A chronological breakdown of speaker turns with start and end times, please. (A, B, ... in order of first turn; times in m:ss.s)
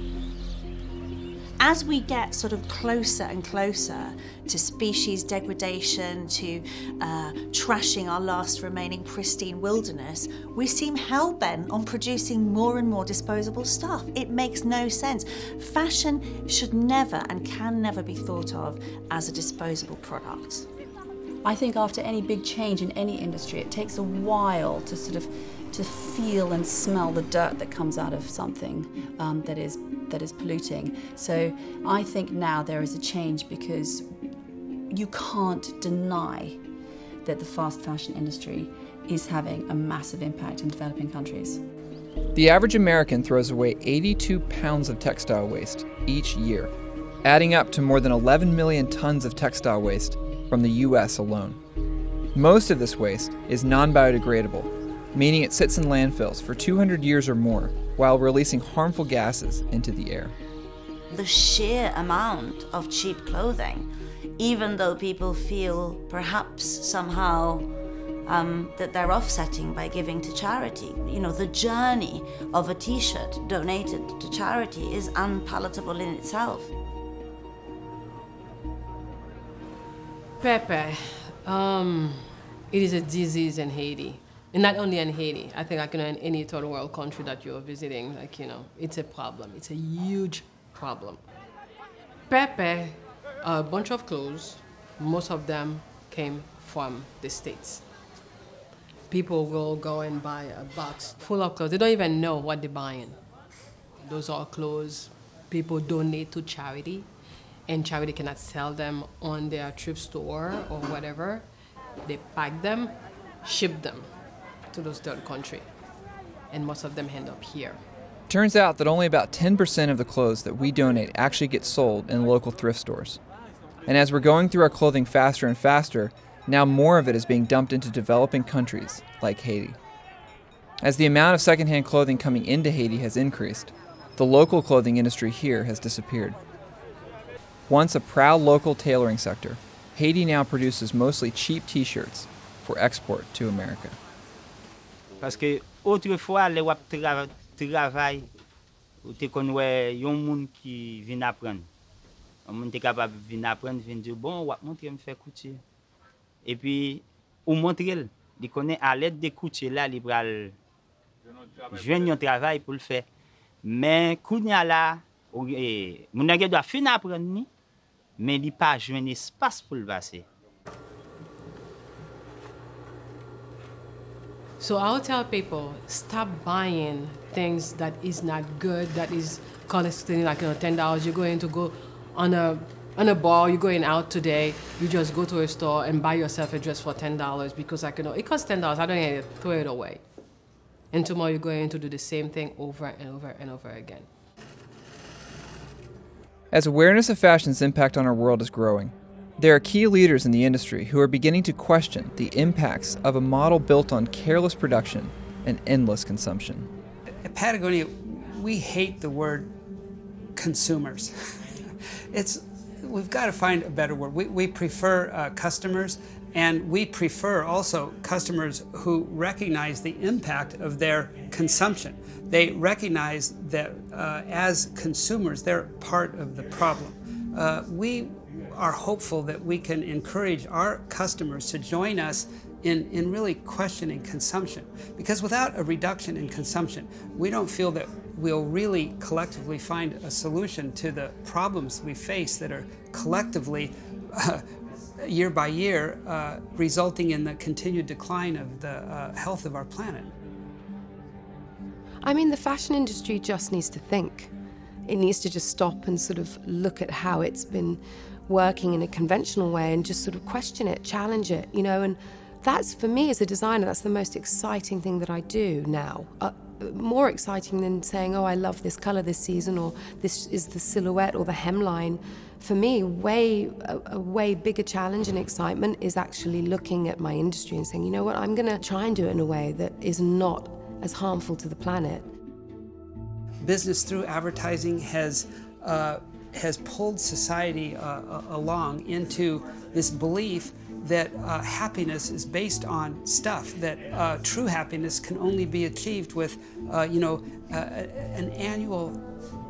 0:01.6-0:20.7 A
0:21.4-0:34.1 B
0:34.9-0:36.6 B
0:37.2-0:41.6 B
0:42.3-0:46.7 C
0:47.2-0:51.6 C
0:52.3-1:00.3 C
1:01.1-1:07.7 D
1:08.2-1:16.7 D
1:20.4-1:31.2 E
1:32.3-1:37.9 E
1:39.1-1:43.2 E
1:44.0-1:47.1 E
1:47.7-1:51.5 E
1:52.0-1:54.2 E
1:54.7-1:55.7 E
1:56.5-1:57.8 E
1:58.3-2:03.2 C
2:03.9-2:09.8 C
2:10.8-2:16.4 C
2:17.7-2:24.0 C
2:25.2-2:28.3 F
2:29.0-2:31.7 F
2:32.4-2:35.6 F
2:36.4-2:40.5 F
2:41.7-2:43.0 F
2:43.6-2:47.5 F
2:48.2-2:50.2 F
2:54.6-3:10.0 E
3:10.9-3:14.1 E
3:16.5-3:26.7 C
3:27.2-3:29.5 G
3:30.4-3:31.6 G
3:32.1-4:04.4 G
4:05.0-4:10.1 G
4:12.0-4:14.3 H
4:14.8-4:42.1 H
4:43.4-4:59.0 G